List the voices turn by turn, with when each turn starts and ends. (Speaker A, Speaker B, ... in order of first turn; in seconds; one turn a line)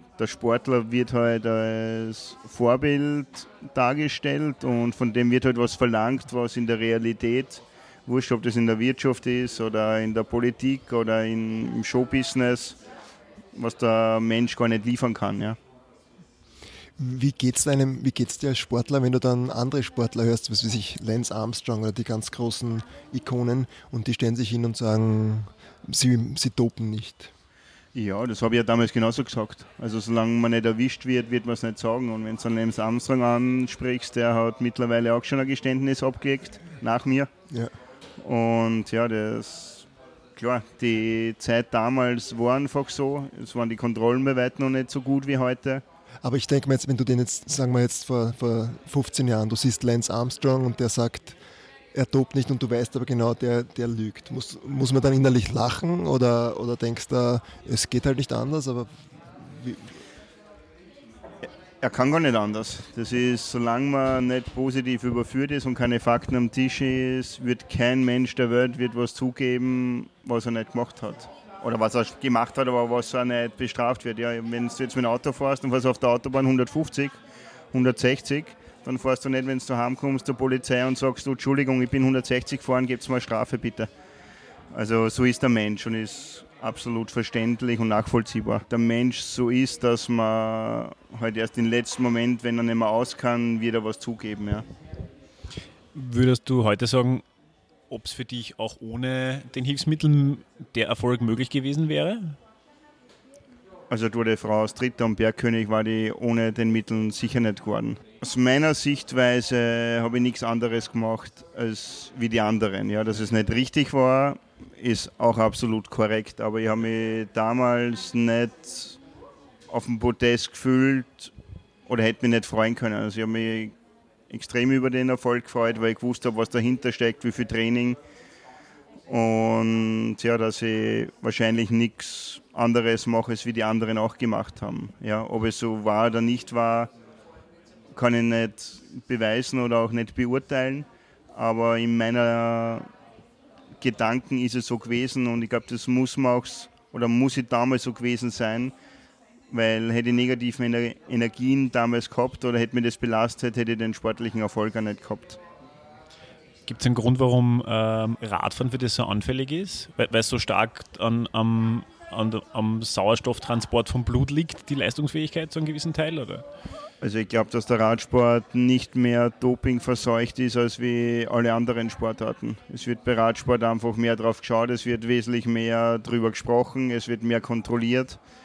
Speaker A: 0.2-12.8
Speaker A: 13.6-15.6
Speaker B: 17.0-27.3
Speaker A: 27.9-37.3
Speaker A: 38.2-45.8
Speaker B: 46.2-51.4
Speaker B: 51.9-60.0
Speaker A: 61.8-77.2
Speaker A: 77.7-83.9
Speaker A: 84.7-94.7
Speaker C: 95.9-97.2
Speaker C: 97.9-102.4
Speaker A: 103.9-119.0
Speaker A: 119.7-121.3
Speaker A: 121.9-123.8
Speaker A: 124.3-128.0
Speaker A: 129.1-136.9
Speaker A: 137.9-142.9
Speaker A: 143.8-148.7
Speaker A: 149.5-155.4
Speaker C: 156.7-166.4
Speaker A: 167.0-178.2